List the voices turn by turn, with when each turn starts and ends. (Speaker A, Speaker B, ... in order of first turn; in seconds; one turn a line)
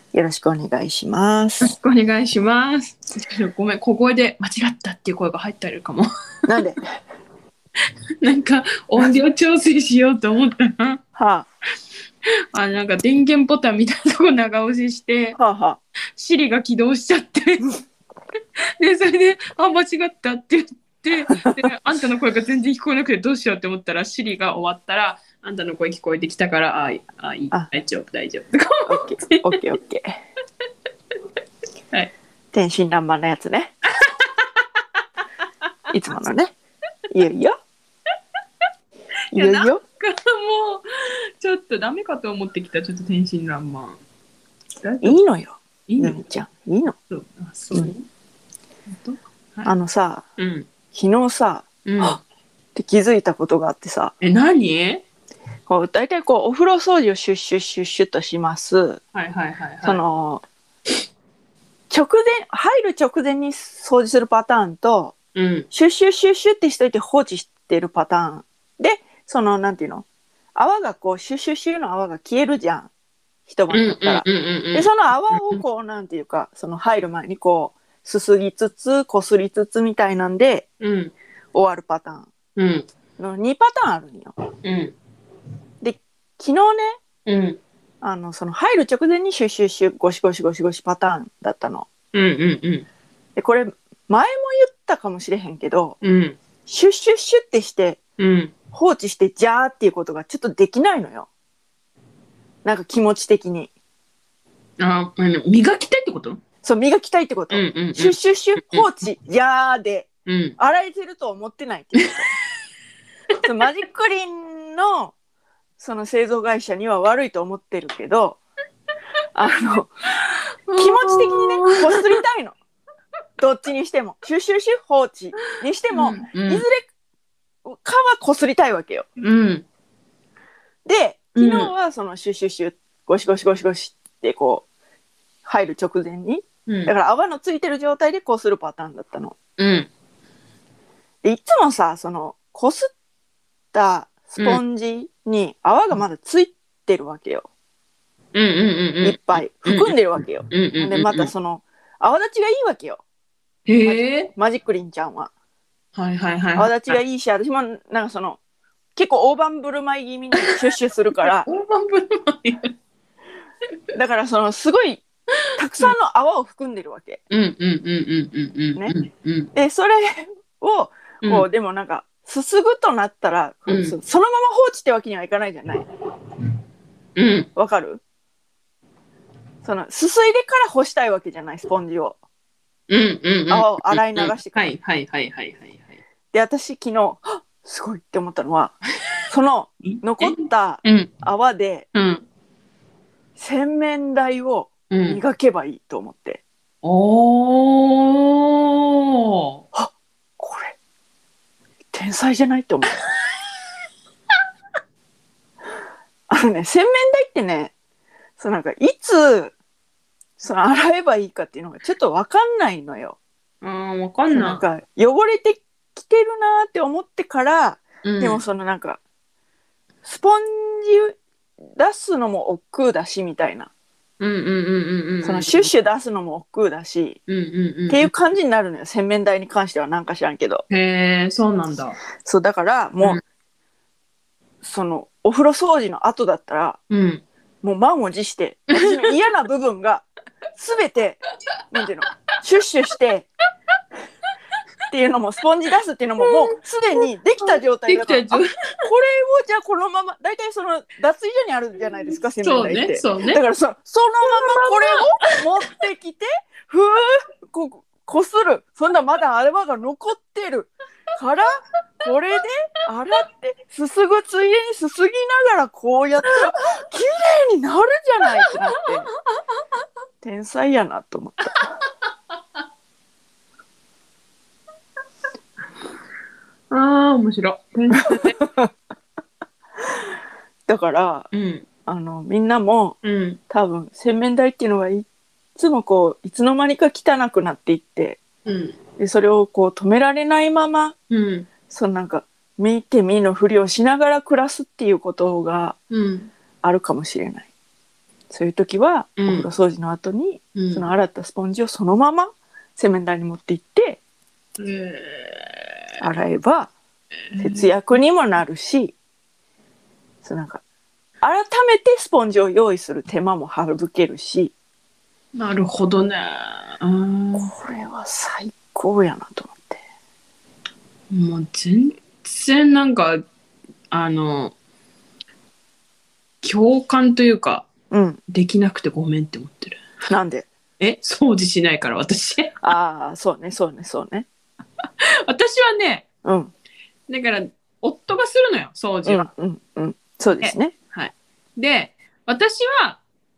Speaker A: 0.1-1.7
Speaker B: 1.6-6.1
Speaker A: 6.5-6.8
Speaker B: 8.2-11.0
Speaker A: 11.2-11.5
Speaker B: 12.5-15.4
Speaker A: 15.4-15.8
Speaker B: 16.2-17.7
Speaker B: 18.8-29.6
Speaker A: 28.9-30.2
Speaker A: 32.5-33.7
Speaker B: 34.0-34.4
Speaker A: 35.9-36.5
Speaker A: 37.1-37.5
Speaker A: 39.3-39.8
Speaker B: 39.3-40.9
Speaker B: 41.4-44.0
Speaker B: 44.8-45.2
Speaker A: 45.0-47.0
Speaker B: 45.9-46.2
Speaker B: 47.1-48.0
Speaker B: 48.9-49.7
Speaker A: 49.6-50.2
Speaker B: 50.4-50.7
Speaker A: 50.9-52.2
Speaker B: 51.9-52.2
Speaker A: 52.8-54.1
Speaker B: 54.2-55.0
Speaker A: 55.7-59.0
Speaker B: 59.1-60.0
Speaker A: 59.8-60.4
Speaker A: 61.9-65.2
Speaker B: 65.3-65.7
Speaker A: 65.7-72.9
Speaker A: 73.5-80.7
Speaker B: 73.7-75.6
Speaker B: 80.8-81.1
Speaker A: 81.5-82.3
Speaker B: 82.6-82.9
Speaker A: 83.2-84.3
Speaker B: 84.6-85.0
Speaker A: 85.8-87.0
Speaker B: 87.3-87.6
Speaker A: 88.0-91.9
Speaker B: 92.1-92.9
Speaker A: 93.4-96.0
Speaker B: 96.0-96.4
Speaker A: 96.7-98.0
Speaker B: 98.2-98.5
Speaker A: 98.7-101.3
Speaker A: 102.7-103.7
Speaker B: 104.8-106.4
Speaker A: 106.6-112.3
Speaker B: 107.5-108.9
Speaker B: 110.3-110.6
Speaker A: 113.4-115.1
Speaker A: 115.8-118.4
Speaker A: 119.3-119.9
Speaker B: 120.2-122.2
Speaker A: 120.8-122.6
Speaker A: 123.4-126.9
Speaker B: 125.5-126.7
Speaker A: 127.7-129.1
Speaker B: 129.2-129.7
Speaker A: 130.8-134.7
Speaker B: 131.4-131.7
Speaker A: 135.4-139.4
Speaker B: 136.7-136.9
Speaker B: 139.6-139.9
Speaker A: 141.2-142.9
Speaker A: 143.7-147.5
Speaker B: 148.3-149.9
Speaker A: 149.0-153.0
Speaker B: 150.5-151.3
Speaker B: 153.7-154.3
Speaker A: 153.8-155.3
Speaker B: 155.9-157.0
Speaker A: 156.6-158.4
Speaker A: 159.0-161.5
Speaker B: 161.4-162.7
Speaker A: 163.9-165.0
Speaker A: 165.6-167.2
Speaker B: 167.3-169.5
Speaker A: 169.5-175.8
Speaker B: 173.7-174.0
Speaker B: 177.2-177.5
Speaker A: 177.6-178.0
Speaker A: 179.6-182.2
Speaker B: 182.9-185.9
Speaker A: 183.5-184.7
Speaker A: 186.3-188.8
Speaker A: 189.3-191.9
Speaker B: 189.8-191.1
Speaker B: 191.9-192.2
Speaker A: 193.4-196.4
Speaker B: 194.9-195.2
Speaker B: 196.8-199.6
Speaker A: 199.7-200.8
Speaker A: 201.9-203.0
Speaker A: 206.3-207.7
Speaker A: 208.4-209.5
Speaker A: 210.4-213.2
Speaker B: 213.6-214.6
Speaker A: 214.3-219.0
Speaker B: 218.0-218.4
Speaker A: 220.1-221.2
Speaker A: 221.8-223.7
Speaker B: 224.2-225.7
Speaker A: 225.2-227.2
Speaker B: 227.3-228.1
Speaker A: 227.9-230.6
Speaker B: 230.7-232.0
Speaker A: 232.2-233.2
Speaker A: 234.6-236.8
Speaker B: 236.9-237.2
Speaker A: 237.6-240.1
Speaker B: 238.7-239.1
Speaker A: 240.6-243.3
Speaker A: 244.9-269.1
Speaker B: 246.2-248.5
Speaker B: 252.4-253.4
Speaker B: 254.3-255.4
Speaker A: 270.2-271.7
Speaker B: 276.7-278.4
Speaker A: 278.0-278.7
Speaker A: 280.7-281.3
Speaker B: 281.3-281.7
Speaker A: 281.9-283.0
Speaker B: 283.0-283.4
Speaker A: 283.5-288.2
Speaker B: 288.5-288.8
Speaker A: 289.0-290.9
Speaker B: 291.1-291.5
Speaker A: 291.7-295.8
Speaker B: 295.9-296.3
Speaker A: 296.6-297.5
Speaker A: 298.3-304.0
Speaker B: 299.2-299.5
Speaker B: 300.6-300.9
Speaker B: 304.6-305.6
Speaker A: 306.0-306.7
Speaker B: 307.3-307.7
Speaker A: 307.4-308.9
Speaker A: 310.2-310.6
Speaker A: 311.2-314.5
Speaker B: 315.3-317.5
Speaker A: 317.4-319.8
Speaker B: 321.1-323.2
Speaker B: 323.9-324.5
Speaker B: 326.4-327.7
Speaker A: 327.9-328.2
Speaker B: 328.3-329.8
Speaker A: 330.0-330.5
Speaker B: 330.8-332.6
Speaker A: 332.6-334.3
Speaker B: 335.3-336.1
Speaker A: 336.2-336.5
Speaker B: 337.1-339.3
Speaker A: 339.1-340.7
Speaker B: 340.4-343.0